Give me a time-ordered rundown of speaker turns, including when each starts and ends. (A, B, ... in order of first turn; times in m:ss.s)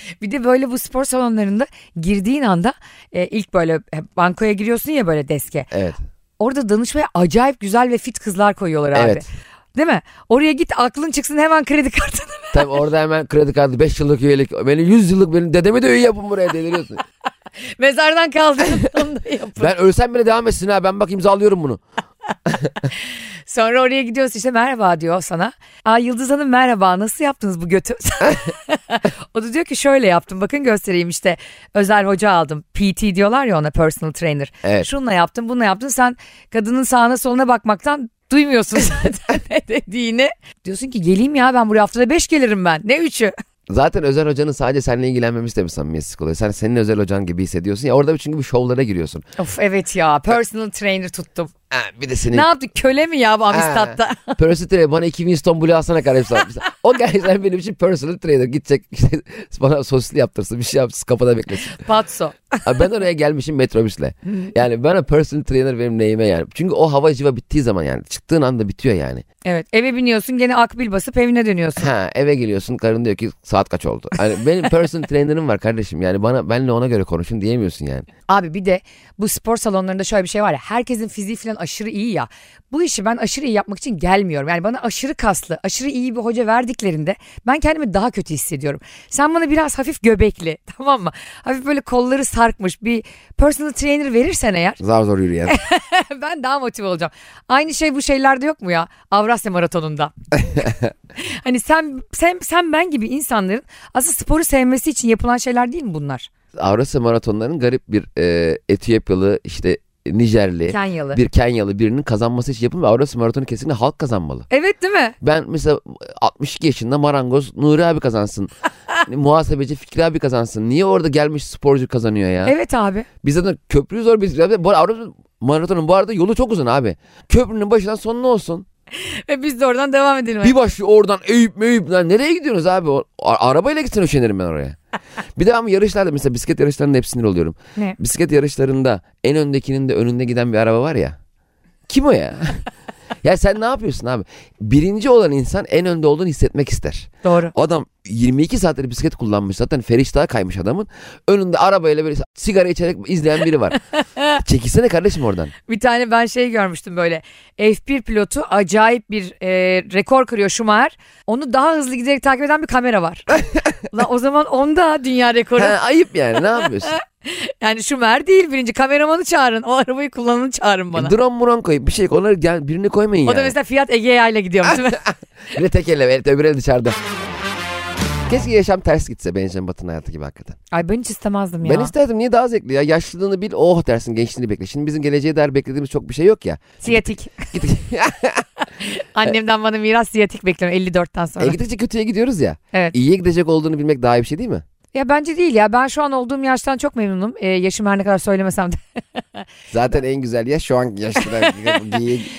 0:00.2-0:05.7 A
0:05.7-0:06.0 B
0:06.4-0:12.8 A
0:08.9-0:09.2 B
0:12.5-0:17.0 B
0:17.8-0:19.7 A
0:19.6-0:21.8 B
0:23.5-0:43.3 A
0:34.6-0:34.9 B
0:43.7-0:49.2 B
0:49.4-0:51.5 A
0:51.7-0:52.5 B
0:52.3-0:54.4 A
0:53.5-1:01.7 B
1:01.6-1:02.6 A
1:02.6-1:09.2 B
1:09.4-1:11.9 A
1:11.8-1:18.1 B
1:18.3-1:34.8 A
1:34.8-1:35.6 B
1:35.5-1:46.3 A
1:46.6-1:54.4 B
1:50.7-1:51.2 A
1:54.5-1:55.1 A
1:55.2-1:58.5 B
1:59.0-2:02.6 B
2:02.4-2:03.1 A
2:03.2-2:08.6 B
2:09.0-2:10.5 A
2:10.4-2:14.8 B
2:15.4-2:21.2 B
2:21.9-2:22.6 B
2:23.2-2:33.8 B
2:27.2-2:27.5 A
2:34.1-2:34.4 A
2:34.4-2:35.5 B
2:35.7-2:45.8 A
2:45.6-2:46.9 B
2:46.6-2:51.1 A
2:50.9-2:53.5 B
2:53.2-2:55.1 A
2:55.5-2:57.0 B
2:58.3-3:00.6 B
3:00.7-3:01.9 A
3:01.6-3:08.4 B
3:06.8-3:07.5 A
3:08.8-3:11.6 A
3:11.4-3:14.6 B
3:14.9-3:18.8 A
3:19.7-3:22.3 B
3:21.2-3:22.0 A